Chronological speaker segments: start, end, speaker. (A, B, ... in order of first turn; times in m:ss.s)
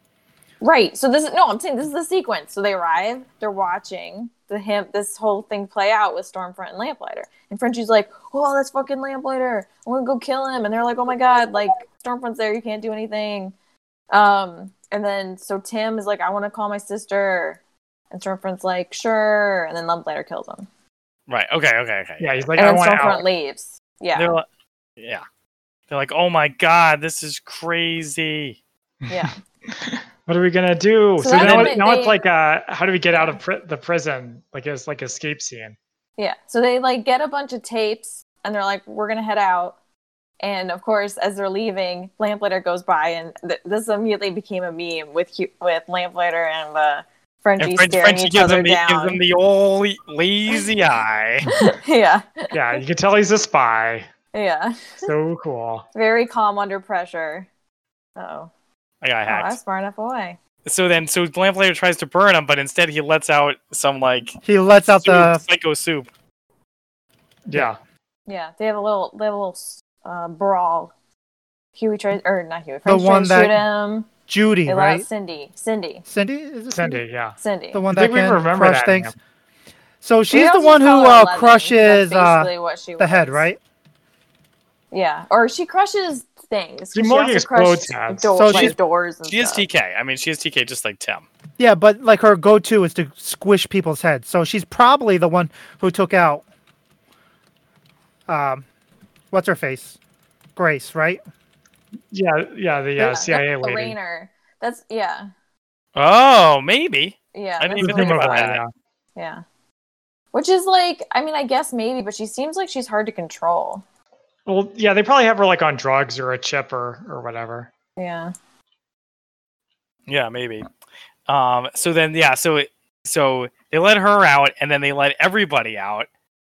0:00.6-0:13.5 A
0:14.1-0:17.6 A
0:18.1-0:20.7 A
0:21.3-0:22.3 B
0:22.2-0:23.3 C
0:22.6-0:24.4 A
0:24.2-0:24.4 B
0:25.0-0:25.2 B
0:25.9-0:28.6 B
0:29.1-0:29.4 A
0:29.1-0:35.8 C
0:31.2-0:32.2 A
0:31.4-0:31.8 B
0:36.2-0:39.8 A
0:40.4-0:49.2 A
0:47.6-0:51.5 B
0:51.5-0:52.8 A
0:52.5-0:54.1 C
0:54.3-0:55.1 A
0:55.0-0:55.9 C
0:55.9-0:57.5 A
0:58.2-0:58.5 A
0:59.0-0:59.6 B
0:59.3-1:00.4 A
1:00.6-1:06.1 B
1:04.4-1:05.4 D
1:07.5-1:07.8 C
1:08.3-1:10.9 A
1:11.8-1:14.1 A
1:12.9-1:13.6 D
1:14.3-1:15.1 D
1:14.7-1:16.0 A
1:16.1-1:17.0 D
1:16.7-1:17.4 C
1:17.4-1:17.8 A
1:17.7-1:19.1 D
1:17.9-1:19.1 C
1:20.0-1:23.6 D
1:20.3-1:23.5 A
1:24.9-1:29.7 A
1:26.9-1:28.4 C
1:28.4-1:28.7 D
1:28.5-1:28.8 B
1:29.3-1:31.3 B
1:31.6-1:36.4 D
1:38.3-1:38.7 D
1:39.3-1:40.0 D
1:40.6-1:41.2 D
1:42.1-1:44.0 C
1:43.0-1:45.3 A
1:46.0-1:48.6 B
1:47.3-1:48.6 A
1:47.8-1:48.7 C
1:49.2-1:49.4 A
1:50.3-1:53.8 A
1:54.5-1:57.7 C
1:58.0-1:58.3 A
2:00.1-2:00.7 B
2:01.3-2:06.1 B